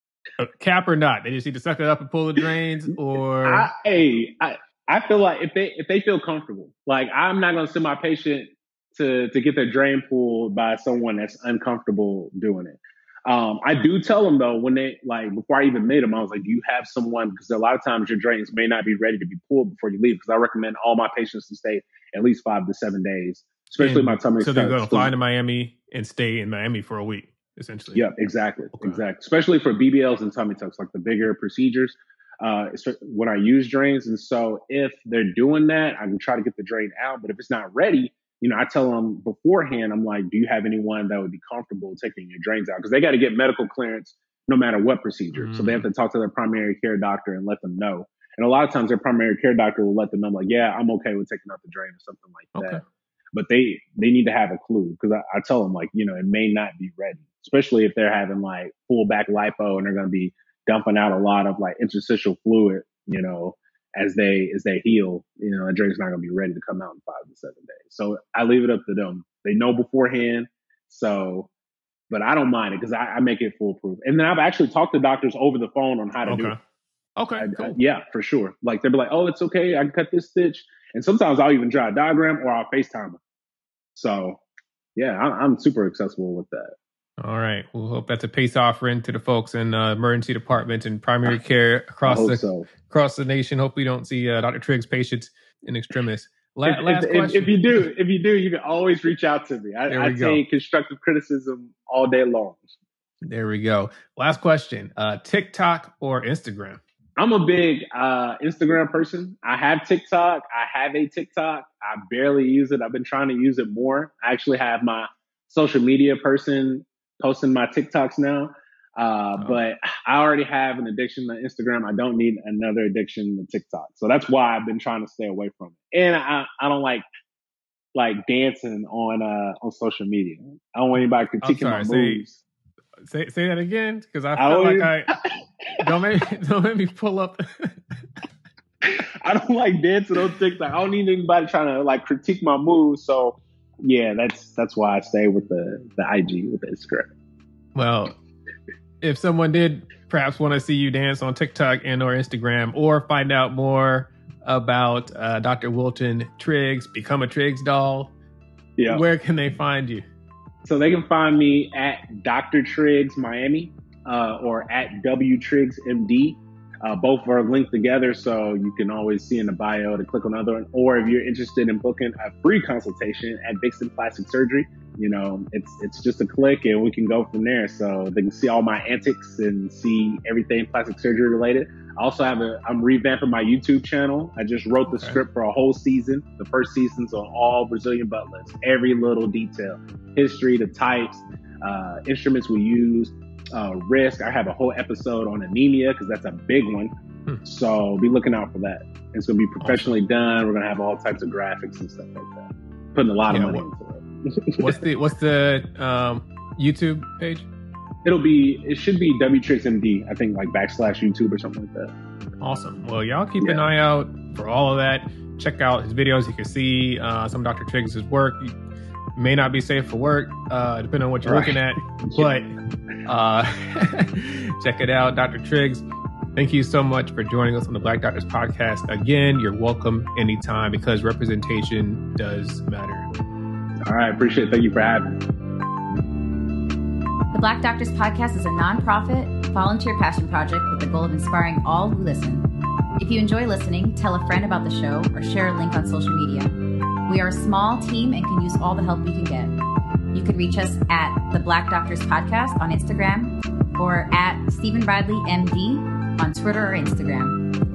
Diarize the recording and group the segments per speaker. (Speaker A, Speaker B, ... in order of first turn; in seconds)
Speaker A: 0.4-3.7, 23.8-28.0, 28.8-29.0, 45.3-45.9, 52.5-52.8, 76.2-76.6, 77.2-77.8, 87.2-97.5, 99.9-100.4, 103.2-106.8, 131.4-132.4, 133.0-135.1, 135.8-137.8, 147.7-148.1, 149.0-158.1, 158.9-160.0, 199.6-199.9, 203.3-203.7, 204.6-207.5, 212.4-218.5, 219.2-225.8, 226.3-233.1
Speaker B: 3.4-25.1, 27.9-52.8, 53.3-71.5, 72.1-76.5, 77.4-83.2, 83.9-84.4, 85.0-86.7, 92.0-92.7, 96.7-102.6, 107.2-127.0, 127.9-132.3, 134.4-135.8, 138.8-147.1, 158.8-159.0, 160.6-196.9, 197.4-204.8, 208.0-211.9, 221.2-221.6, 222.1-222.3, 233.8-235.2
Speaker C: 237.3-242.5, 243.0-246.6, 247.1-249.6, 250.1-257.5